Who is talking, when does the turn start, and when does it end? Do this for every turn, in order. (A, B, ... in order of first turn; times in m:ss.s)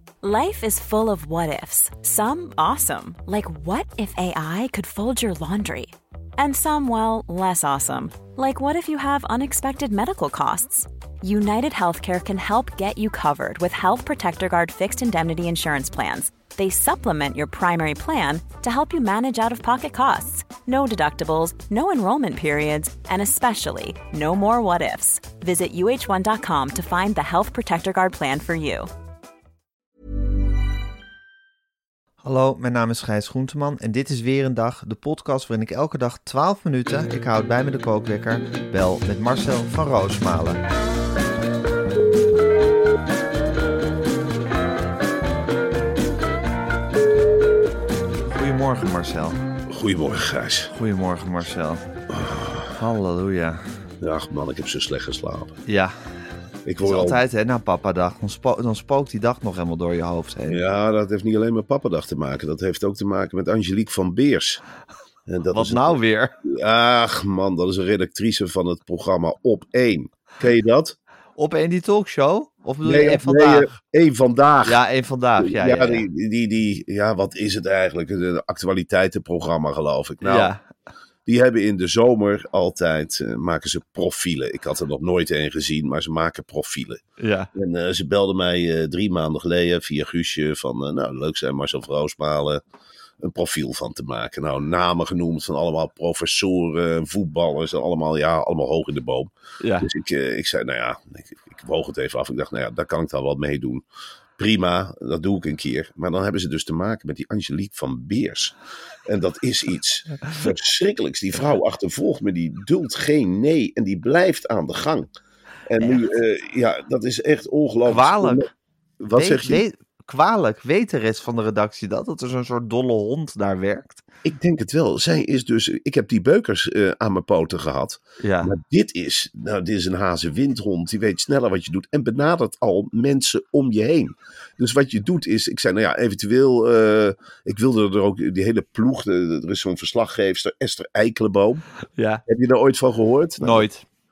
0:00.2-0:28.9 A
0:32.2-0:40.6 B
0:48.3-0:49.4 B
0:49.7-0:50.7 C
0:50.7-0:51.8 B
0:52.1-0:52.7 C
0:52.7-0:53.6 B
0:54.0-0:55.6 C
0:55.7-0:56.0 B
0:56.6-0:57.2 C
0:56.8-1:00.6 B
1:00.5-1:04.6 C
1:05.3-1:11.0 C
1:05.5-1:06.3 B
1:11.4-1:13.7 B
1:12.8-1:14.8 C
1:14.7-1:16.1 B
1:15.4-1:20.5 C
1:20.2-1:20.6 B
1:21.3-1:27.0 C
1:27.2-1:27.5 B
1:27.5-1:32.6 C
1:33.2-1:43.8 C
1:39.6-1:39.9 B
1:44.4-1:55.1 C
1:55.7-1:58.5 C
1:57.9-1:58.4 B
1:59.0-1:59.6 C
1:59.1-2:04.0 B
2:04.2-2:21.6 C
2:08.2-2:08.5 B
2:22.0-2:22.2 B
2:22.2-2:23.7 C
2:23.4-2:23.8 B